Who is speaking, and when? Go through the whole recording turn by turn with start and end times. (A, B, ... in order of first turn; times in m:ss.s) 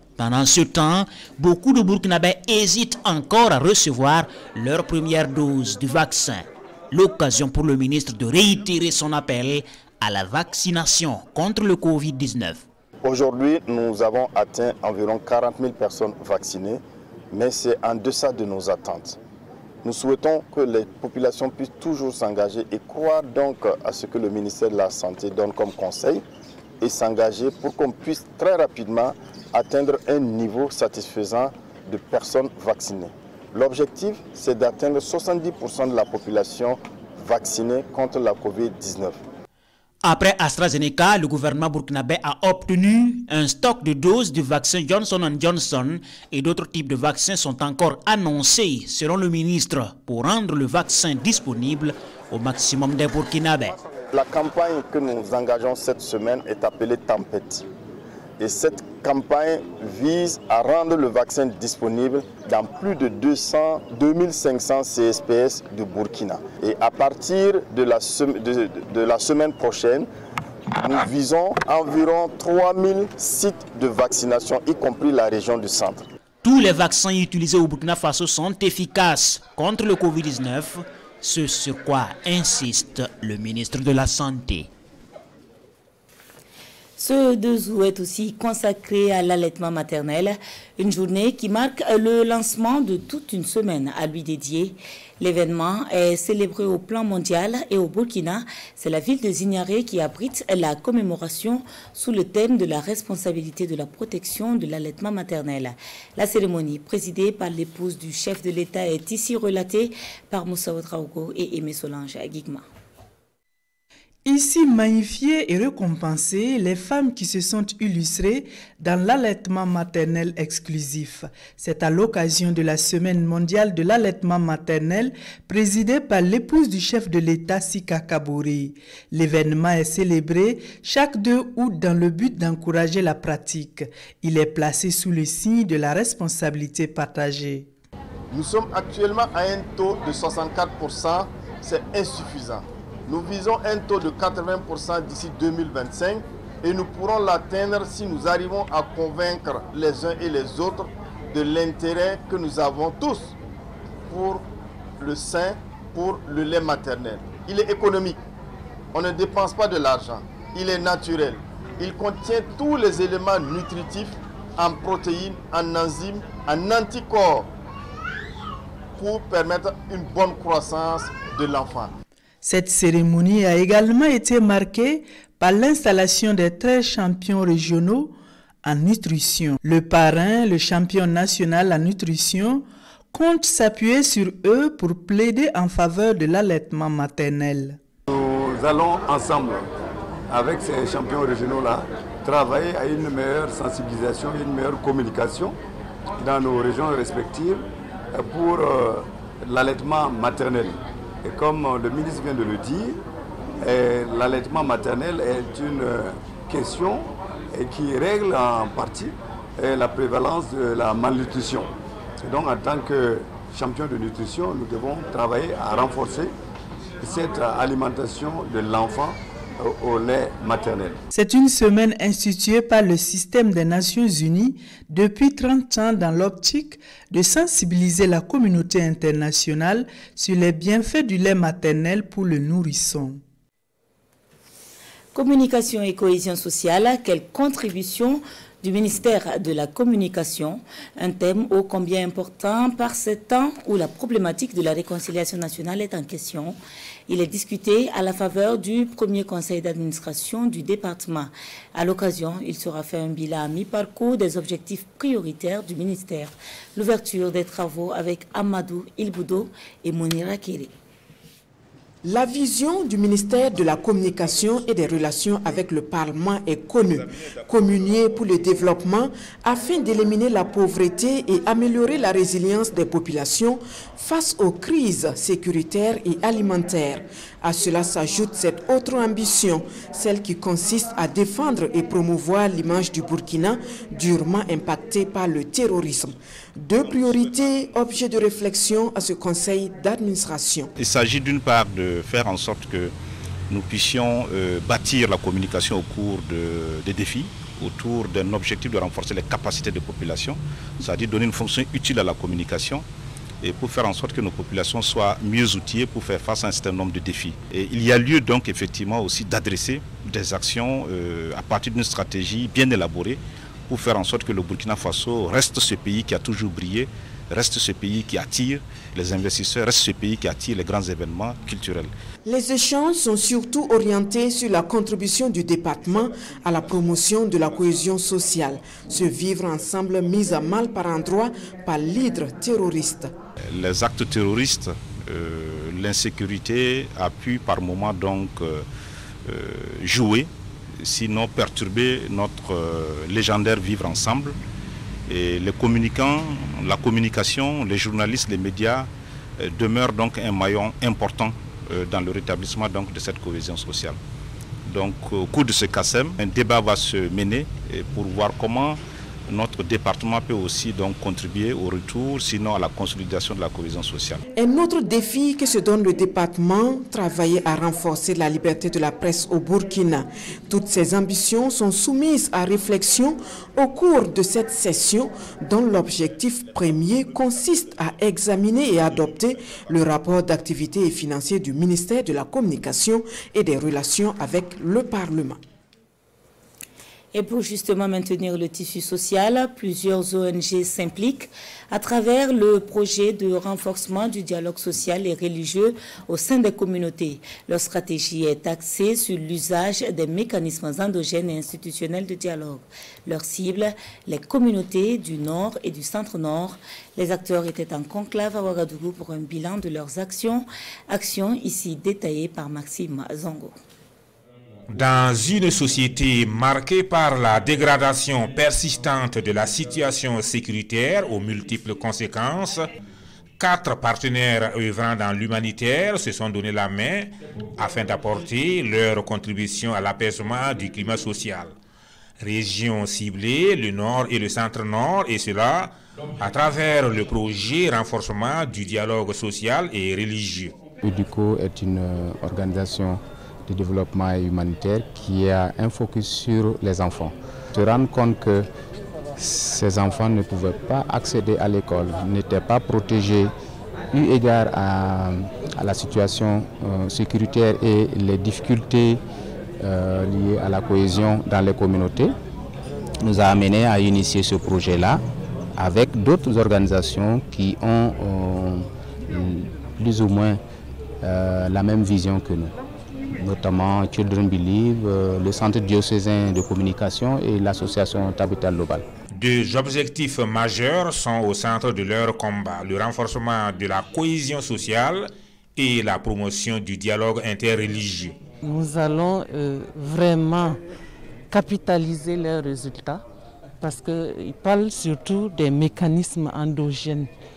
0:00.2-0:12.6 A
0:13.0-0:16.8 B
0:17.3-0:19.2 B
0:19.8-0:26.2 B
0:26.8-0:39.2 B
0:40.0-0:53.7 A
0:54.1-0:57.6 B
0:58.4-1:10.1 B
1:10.8-1:16.1 B
1:16.4-1:24.7 A
1:27.0-1:52.6 C
1:54.2-2:17.7 D
2:18.3-2:33.4 B
2:34.1-2:34.4 B
2:35.0-2:38.2 B
2:38.9-2:47.5 B
2:48.9-2:51.9 B
2:52.4-3:07.8 D
3:08.1-3:09.7 E
3:10.3-3:15.5 E
3:16.2-3:23.0 E
3:23.6-3:36.3 E
3:37.0-3:41.0 E
3:41.1-3:53.2 D
3:55.1-4:20.7 C
4:22.0-4:50.7 F
4:50.8-4:52.9 G
4:53.5-5:02.8 G
5:03.4-5:21.9 G
5:22.2-5:33.1 F
5:33.4-5:38.6 G
5:39.2-5:44.4 G
5:45.1-5:54.0 G
5:54.6-6:04.2 G
6:04.3-6:25.4 F
6:27.1-6:53.5 C
6:54.7-7:02.7 H
7:03.4-7:11.6 H
7:12.2-7:20.6 H
7:20.8-7:28.5 I
7:29.2-7:33.3 I
7:33.9-7:39.0 I
7:39.6-7:42.2 I
7:43.0-7:45.0 I
7:45.6-7:50.4 I
7:51.0-7:52.5 I
7:53.2-7:58.8 I
7:59.1-8:08.2 H
8:08.4-8:10.6 J
8:11.3-8:13.0 J
8:13.6-8:17.1 J